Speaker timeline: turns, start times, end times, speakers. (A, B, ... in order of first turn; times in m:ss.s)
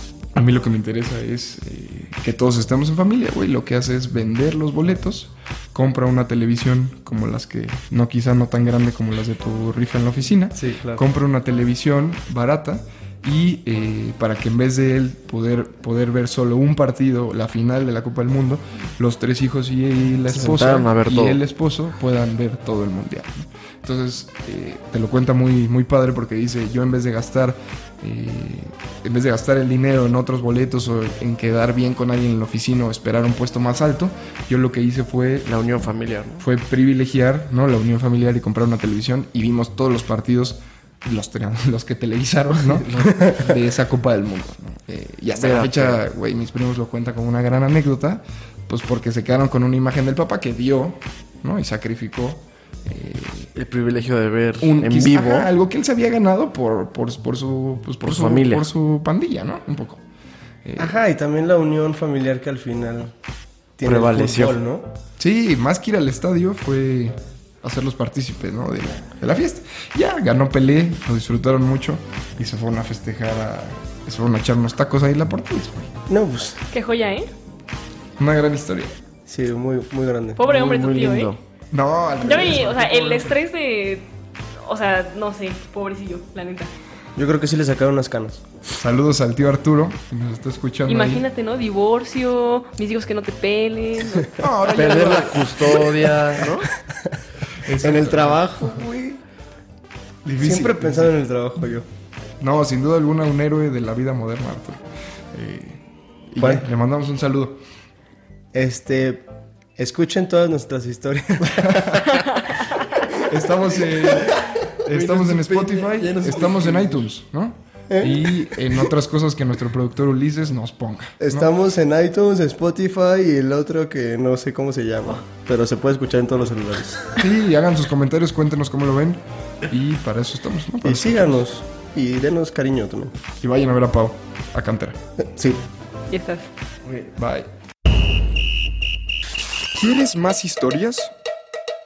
0:00.4-0:35.6 A
0:10.6-0:11.0 B
0:20.3-0:21.4 C
0:35.4-0:36.5 C
0:36.4-0:53.5 A
0:42.7-0:43.5 C
0:45.4-0:46.0 C
0:53.6-0:55.5 C
0:54.6-1:00.0 A
0:58.0-0:58.7 C
1:00.6-1:01.0 A
1:00.8-1:03.1 B
1:03.8-1:04.9 B
1:03.8-1:04.6 C
1:05.2-1:15.9 A
1:16.1-1:16.6 B
1:16.7-1:17.3 D
1:18.2-1:19.0 A
1:19.3-1:20.4 B
1:20.4-1:21.3 D
1:20.4-1:21.4 C
1:21.7-1:23.4 A
1:22.2-1:24.1 D
1:24.6-1:26.7 D
1:27.2-1:28.4 B
1:28.8-1:31.2 A
1:30.9-1:34.4 D
1:34.4-1:35.9 A
1:34.7-1:36.7 C
1:37.6-1:38.8 A
1:37.8-1:39.2 B
1:40.2-1:41.1 A
1:40.4-1:41.8 B
1:42.4-1:44.8 A
1:45.3-1:47.6 A
1:46.4-1:46.7 B
1:48.5-1:52.2 B
1:51.6-1:52.2 A
1:53.2-2:01.5 A
1:54.9-1:57.0 C
1:57.9-1:58.5 B
2:01.2-2:07.1 B
2:07.2-2:11.4 A
2:10.8-2:13.2 B
2:13.4-2:15.0 A
2:15.2-2:15.6 B
2:16.1-2:16.5 D
2:17.2-2:17.5 A
2:19.7-2:21.1 A